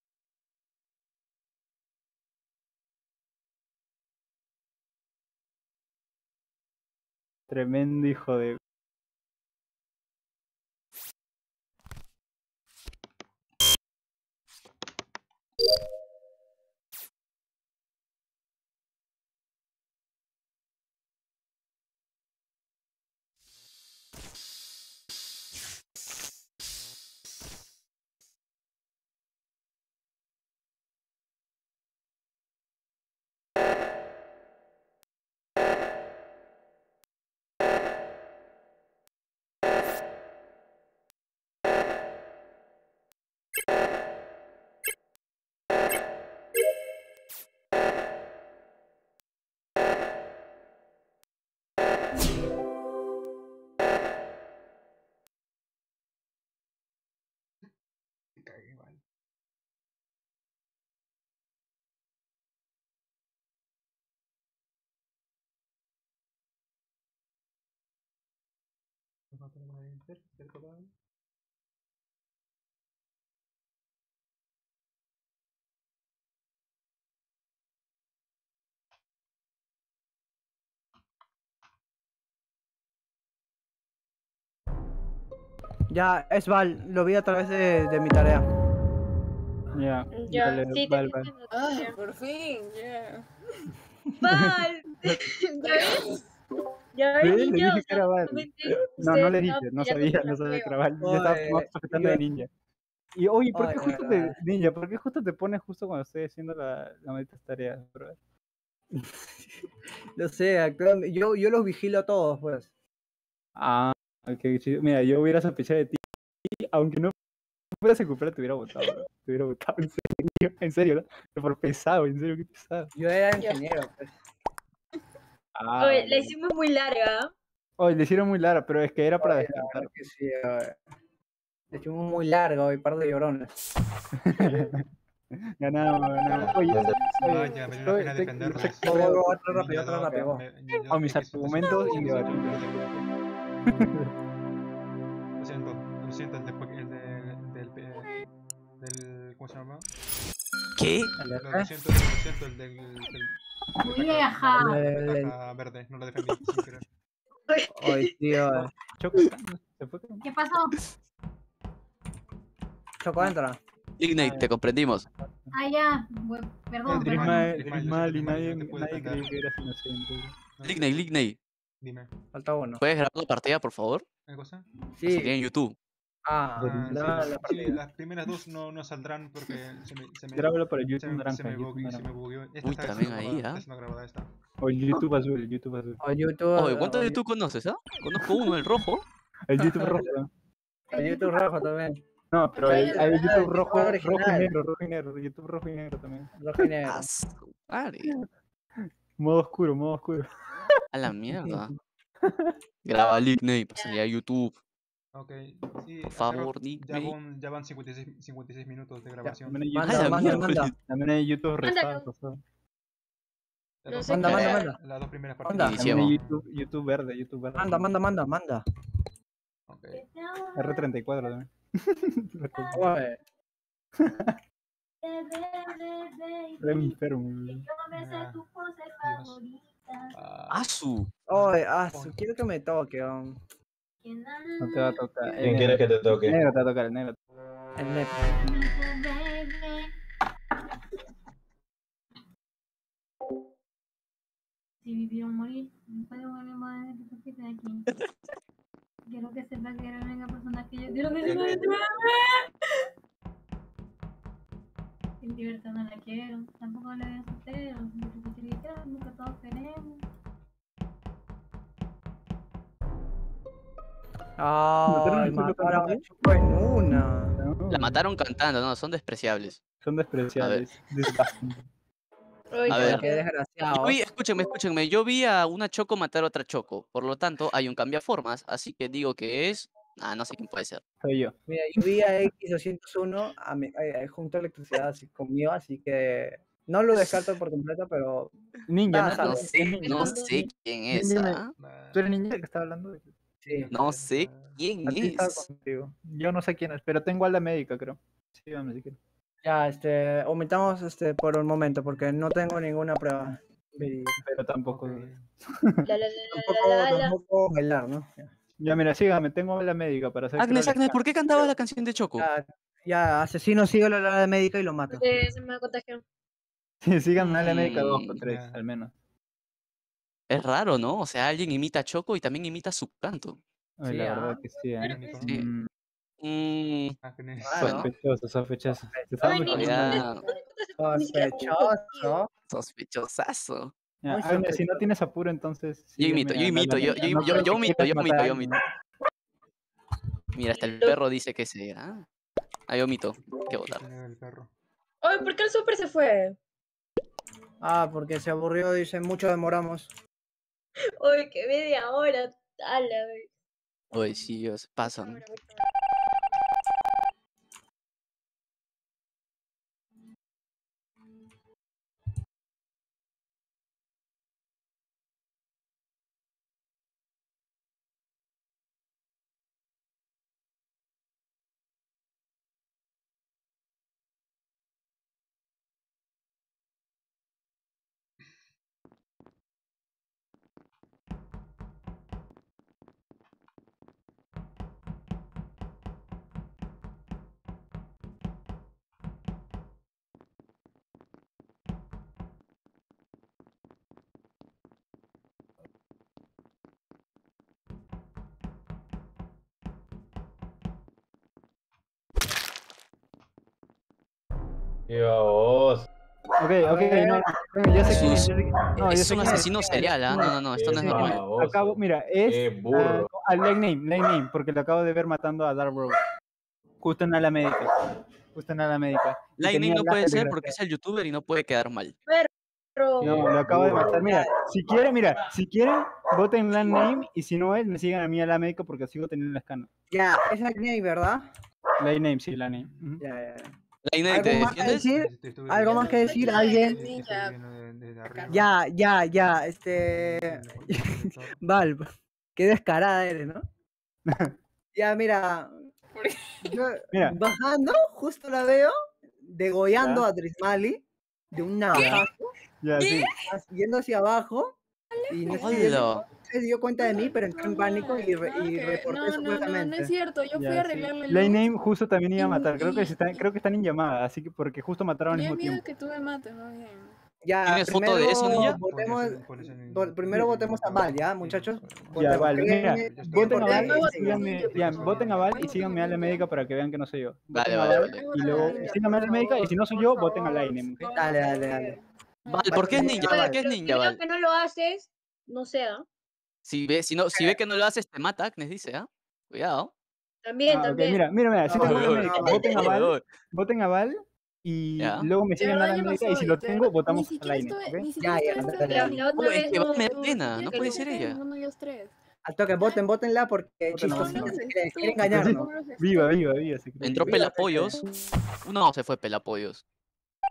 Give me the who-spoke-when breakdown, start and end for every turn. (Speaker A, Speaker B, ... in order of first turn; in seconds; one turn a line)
Speaker A: 7.5-8.6
Speaker B: 58.4-59.0
Speaker B: 69.3-70.9
Speaker C: 85.9-88.5
Speaker A: 89.7-91.3
Speaker D: 90.1-92.0
Speaker E: 91.5-93.3
Speaker D: 94.2-96.2
Speaker A: 94.3-95.2
Speaker E: 95.6-96.2
Speaker D: 96.9-100.8
Speaker A: 97.2-102.5
Speaker C: 101.0-102.2
Speaker A: 103.1-108.2
Speaker C: 103.5-104.4
Speaker C: 110.2-112.7
Speaker A: 113.6-117.1
Speaker A: 117.8-122.9
Speaker C: 122.9-124.1
Speaker A: 125.5-126.3
Speaker D: 125.8-127.3
Speaker A: 127.8-129.9
Speaker C: 129.2-130.8
Speaker C: 131.7-133.5
Speaker A: 134.1-134.8
Speaker C: 134.3-134.6
Speaker A: 135.3-139.4
Speaker E: 136.3-137.8
Speaker F: 136.4-136.9
Speaker B: 137.2-143.0
Speaker C: 138.8-140.4
Speaker A: 140.9-143.1
Speaker A: 143.7-144.1
Speaker B: 145.4-148.1
Speaker B: 148.8-149.9
Speaker G: 150.8-151.1
Speaker A: 151.2-151.5
Speaker B: 151.3-156.8
Speaker H: 153.8-154.8
Speaker C: 154.6-155.3
Speaker D: 157.5-158.1
Speaker C: 157.8-158.7
Speaker A: 158.5-160.2
Speaker H: 160.2-160.8
Speaker C: 163.0-163.6
Speaker G: 164.0-165.1
Speaker A: 164.2-164.5
Speaker A: 165.2-165.5
Speaker H: 165.5-167.6
Speaker B: 166.8-169.3
Speaker A: 166.9-170.3
Speaker B: 170.6-171.1
Speaker G: 170.6-171.4
Speaker B: 171.8-172.1
Speaker C: 172.3-172.8
Speaker G: 172.8-174.1
Speaker B: 174.3-174.7
Speaker C: 175.0-175.3
Speaker G: 175.1-175.8
Speaker C: 176.2-177.8
Speaker B: 176.6-184.3
Speaker A: 176.6-177.3
Speaker A: 180.3-182.1
Speaker G: 182.6-183.6
Speaker A: 184.6-186.0
Speaker C: 186.0-187.2
Speaker G: 186.6-189.0
Speaker A: 189.5-190.3
Speaker C: 189.6-190.1
Speaker C: 190.9-192.0
Speaker A: 192.3-196.7
Speaker E: 192.6-193.6
Speaker C: 192.6-194.5
Speaker C: 196.4-197.1
Speaker G: 196.8-198.1
Speaker A: 198.8-200.3
Speaker G: 200.9-201.7
Speaker A: 202.2-202.5
Speaker G: 202.8-204.5
Speaker B: 205.1-209.6
Speaker G: 206.2-207.2
Speaker C: 209.2-210.7
Speaker A: 209.4-212.4
Speaker G: 209.8-210.7
Speaker H: 211.6-212.1
Speaker D: 211.6-212.0
Speaker B: 213.8-216.4
Speaker D: 213.9-214.7
Speaker C: 214.1-214.8
Speaker G: 214.3-214.6
Speaker C: 215.4-215.8
Speaker G: 215.5-216.2
Speaker A: 215.7-217.9
Speaker C: 217.6-218.7
Speaker B: 219.7-220.0
Speaker H: 219.9-220.9
Speaker A: 220.6-222.9
Speaker H: 222.5-223.0
Speaker C: 222.7-223.2
Speaker A: 224.0-224.3
Speaker H: 225.0-230.1
Speaker A: 226.6-227.7
Speaker B: 227.9-228.4
Speaker B: 229.0-229.3
Speaker B: 230.1-230.7
Speaker G: 230.5-231.1
Speaker C: 231.3-233.4
Speaker B: 231.3-232.2
Speaker H: 234.0-235.3
Speaker A: 234.6-237.2
Speaker F: 235.4-236.4
Speaker C: 237.8-238.2
Speaker H: 238.2-239.9
Speaker H: 244.8-247.9
Speaker H: 249.1-252.5
Speaker F: 251.2-251.7
Speaker H: 255.2-260.0
Speaker C: 264.4-267.4
Speaker A: 264.9-266.0
Speaker A: 266.9-268.0
Speaker G: 267.7-269.6
Speaker A: 269.8-271.6
Speaker G: 270.4-270.6
Speaker D: 272.5-273.2
Speaker G: 272.7-273.0
Speaker C: 272.7-274.0
Speaker G: 273.7-280.8
Speaker A: 281.0-281.3
Speaker C: 281.5-288.3
Speaker A: 288.7-291.4
Speaker C: 288.9-289.7
Speaker G: 289.0-291.5
Speaker D: 289.8-290.3
Speaker B: 291.6-292.0
Speaker A: 291.9-293.1
Speaker B: 293.5-294.6
Speaker G: 293.7-295.4
Speaker A: 294.8-299.0
Speaker C: 299.4-304.2
Speaker A: 303.8-305.8
Speaker B: 304.7-305.2
Speaker D: 305.9-307.1
Speaker C: 306.3-308.3
Speaker A: 308.6-311.1
Speaker G: 310.4-312.3
Speaker C: 312.2-315.2
Speaker D: 314.9-316.0
Speaker A: 316.8-318.9
Speaker G: 317.4-318.2
Speaker B: 318.2-318.6
Speaker G: 320.3-323.4
Speaker A: 323.8-325.7
Speaker C: 323.8-324.4
Speaker D: 324.8-325.3
Speaker B: 324.8-325.4
Speaker G: 326.2-326.9
Speaker B: 327.0-327.9
Speaker C: 327.4-327.8
Speaker A: 327.6-330.0
Speaker G: 327.6-327.9
Speaker C: 328.9-329.2
Speaker D: 329.2-332.1
Speaker G: 329.5-330.2
Speaker C: 330.8-332.3
Speaker G: 332.5-333.7
Speaker A: 334.0-338.6
Speaker C: 334.1-334.9
Speaker G: 336.0-338.6
Speaker D: 337.2-337.5
Speaker G: 340.3-342.1
Speaker D: 340.5-341.0
Speaker G: 342.7-343.8
Speaker B: 343.5-344.5
Speaker D: 345.0-346.4
Speaker C: 347.6-349.9
Speaker D: 351.0-353.3
Speaker G: 353.9-355.2
Speaker D: 354.8-355.6
Speaker F: 404.9-405.9
Speaker A: 406.4-409.9
Speaker C: 406.6-408.5
Speaker G: 407.8-411.2
Speaker C: 409.1-411.2
Speaker F: 410.5-413.1
Speaker A: 410.9-416.0
Speaker A: 416.8-417.7
Speaker A: 418.3-420.5
Speaker G: 419.4-421.9
Speaker D: 422.1-423.1
Speaker F: 423.0-423.9
Speaker A: 423.0-429.7
Speaker C: 423.6-424.3
Speaker C: 429.9-431.3
Speaker A: 431.8-433.0
Speaker C: 433.0-433.5
Speaker G: 433.8-434.9
Speaker C: 434.1-436.8
Speaker B: 434.2-438.6
Speaker E: 435.7-437.4
Speaker E: 438.1-438.5
Speaker C: 438.3-443.4
Speaker B: 439.9-441.4
Speaker A: 444.1-444.4
Speaker C: 444.7-445.5
Speaker E: 445.9-446.6
Speaker C: 446.4-452.3
Speaker A: 446.9-447.2
Speaker A: 449.8-450.1
Speaker E: 451.8-452.0
Speaker A: 452.6-453.1
Speaker E: 452.8-453.1
Speaker C: 453.3-454.6
Speaker E: 454.9-456.0
Speaker C: 455.1-459.9
Speaker G: 455.4-456.0
Speaker E: 456.8-461.5
Speaker A: 460.4-465.6
Speaker E: 462.2-463.2
Speaker E: 465.1-466.9
Speaker C: 467.2-474.3
Speaker G: 467.4-468.6
Speaker B: 468.2-475.5
Speaker A: 471.9-481.0
Speaker E: 473.2-476.3
Speaker G: 477.3-478.6
Speaker E: 477.8-483.0
Speaker C: 480.9-481.8
Speaker G: 482.3-484.0
Speaker C: 482.5-483.4
Speaker D: 483.0-485.8
Speaker G: 486.4-489.7
Speaker D: 490.2-491.0
Speaker A: 490.5-497.9
Speaker C: 491.4-492.7
Speaker G: 491.5-493.0
Speaker G: 494.8-495.1
Speaker E: 495.4-501.9
Speaker C: 498.0-499.0
Speaker D: 498.6-500.9
Speaker G: 499.1-501.2
Speaker C: 502.2-505.5
Speaker A: 503.7-504.4
Speaker E: 503.9-506.2
Speaker A: 505.0-507.7
Speaker G: 506.8-507.8
Speaker C: 507.0-507.8
Speaker G: 508.4-509.6